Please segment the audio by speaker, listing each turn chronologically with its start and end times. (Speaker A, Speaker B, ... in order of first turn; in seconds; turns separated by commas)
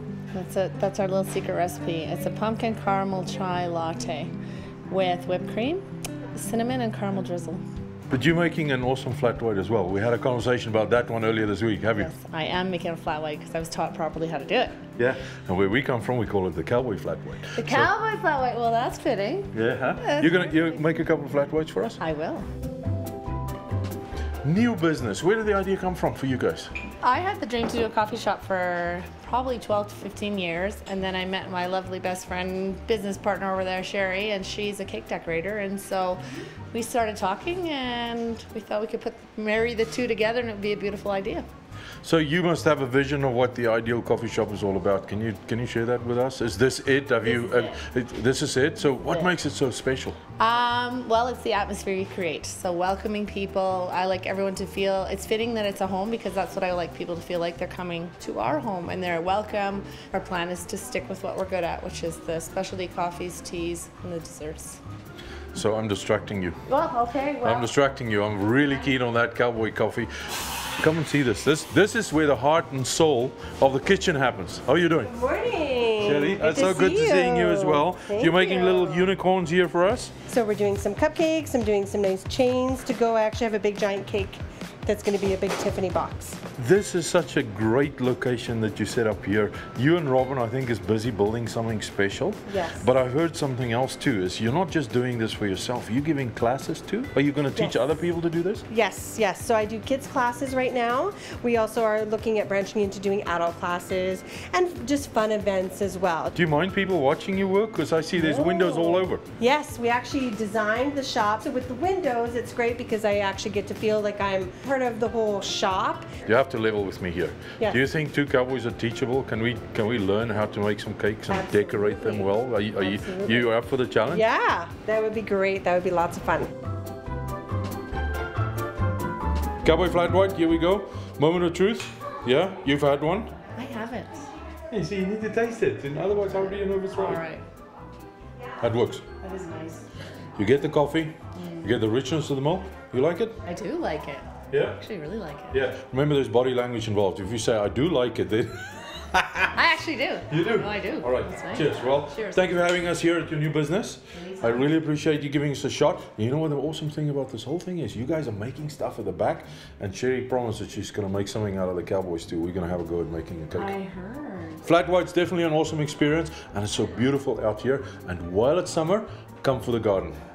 Speaker A: 0.3-4.3, Speaker A: 4.9-7.6, Speaker B: 8.1-12.1, Speaker A: 11.9-14.8, Speaker B: 15.0-17.9, Speaker A: 17.6-20.8, Speaker B: 19.5-22.0, Speaker A: 22.0-22.4, Speaker B: 24.4-26.7, Speaker A: 27.0-41.4, Speaker B: 42.0-50.2, Speaker A: 47.2-47.8, Speaker A: 48.8-49.3, Speaker A: 50.4-64.8, Speaker B: 65.5-66.6, Speaker A: 66.7-67.7, Speaker B: 67.4-75.1, Speaker C: 75.0-79.1, Speaker B: 76.0-80.1, Speaker C: 80.2-86.4, Speaker B: 86.5-98.6, Speaker C: 92.5-92.9, Speaker C: 98.7-106.3, Speaker B: 106.3-109.2, Speaker A: 108.2-109.0, Speaker C: 108.5-108.8, Speaker C: 109.4-116.1, Speaker B: 116.2-124.2, Speaker C: 121.3-123.5, Speaker C: 124.1-126.5, Speaker B: 129.6-133.3, Speaker A: 133.6-134.3, Speaker B: 134.7-137.2, Speaker A: 136.9-137.4, Speaker B: 138.6-139.1, Speaker A: 139.2-139.8, Speaker B: 140.3-143.4, Speaker A: 141.3-141.7, Speaker A: 143.4-145.6, Speaker B: 144.5-144.8, Speaker B: 145.5-149.5, Speaker A: 149.5-152.6, Speaker B: 150.3-163.8, Speaker A: 154.1-154.6, Speaker A: 163.5-164.6, Speaker B: 164.6-170.2